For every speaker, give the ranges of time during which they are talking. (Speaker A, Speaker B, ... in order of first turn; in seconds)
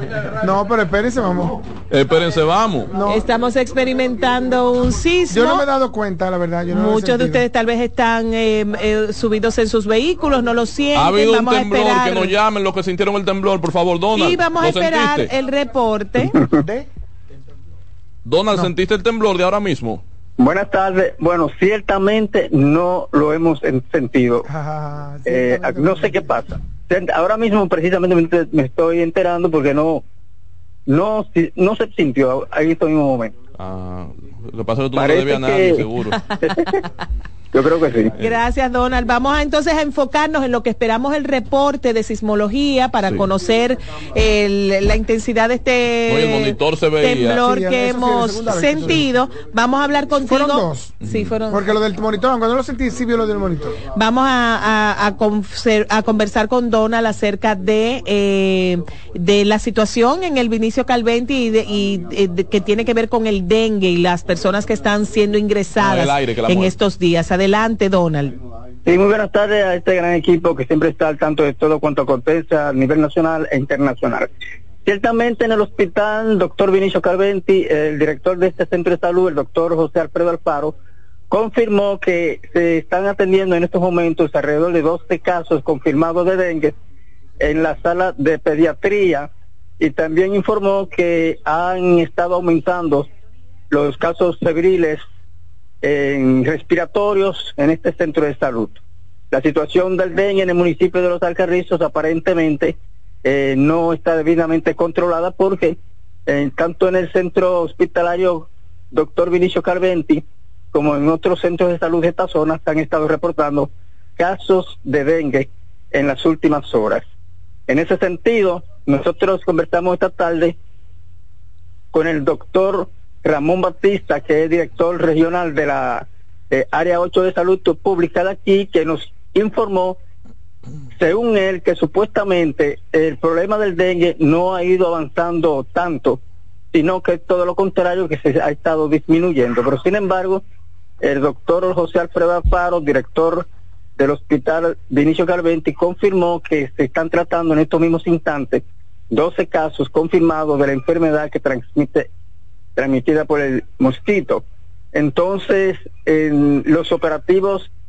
Speaker A: 0.3-1.6, 2.9-3.2, 5.3-7.4, 16.6-16.9, 24.4-26.3, 47.4-49.0, 50.2-51.0, 51.5-53.8
Speaker B: 1.9-2.9, 10.9-15.3, 18.2-20.0, 33.6-36.2, 46.1-47.4, 51.0-51.3, 65.8-66.7
Speaker C: 3.0-5.7, 6.7-12.3, 14.1-16.4, 38.2-51.8, 53.9-68.3
Speaker D: 20.4-24.5, 25.2-30.0, 30.9-33.3, 34.9-35.8, 36.4-36.8, 37.5-38.1, 68.8-74.3, 74.8-80.8, 81.3-86.8, 87.4-89.3, 89.8-93.1, 93.7-95.0, 95.8-98.8, 99.3-117.0, 117.7-120.5, 121.9-130.0, 131.0-136.2, 136.7-140.4, 141.0-143.5, 144.0-152.1, 152.8-157.7